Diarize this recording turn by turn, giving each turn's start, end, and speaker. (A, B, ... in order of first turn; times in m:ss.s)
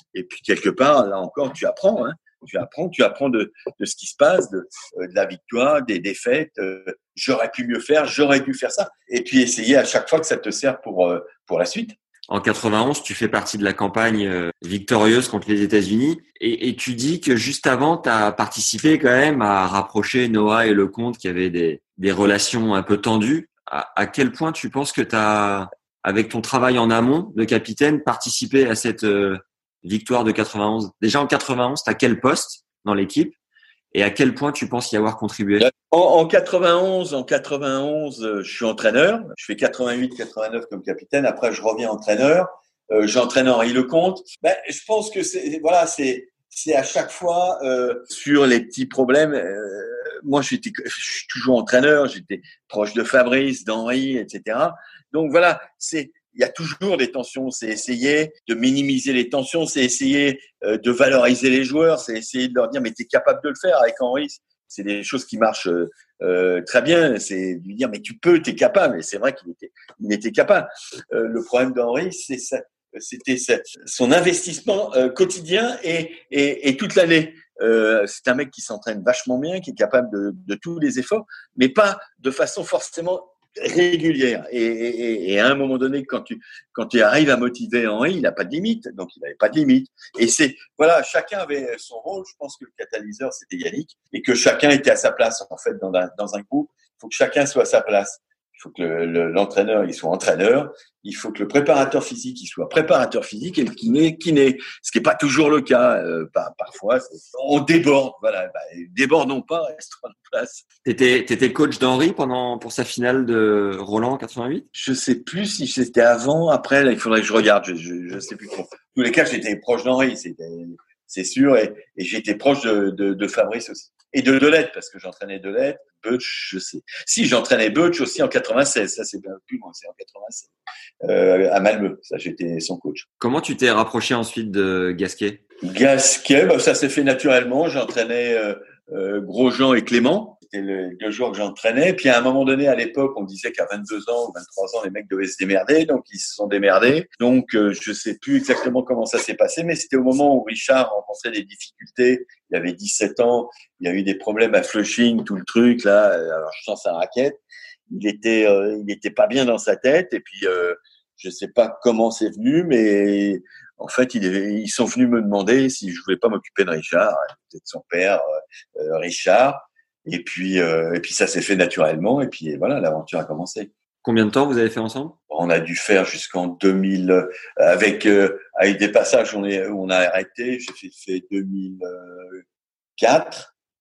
0:00.1-0:12.0 A
0:12.3-0:33.4 B
0:33.9-0:35.7 B
0:35.6-1:50.6 A
1:50.8-1:54.6 B
1:54.7-2:10.5 A
2:11.0-2:13.1 A
2:13.2-2:15.4 B
2:15.6-2:48.2 A
2:48.8-2:53.7 A
2:54.0-2:55.1 B
2:55.3-3:02.4 A
3:03.0-3:03.5 A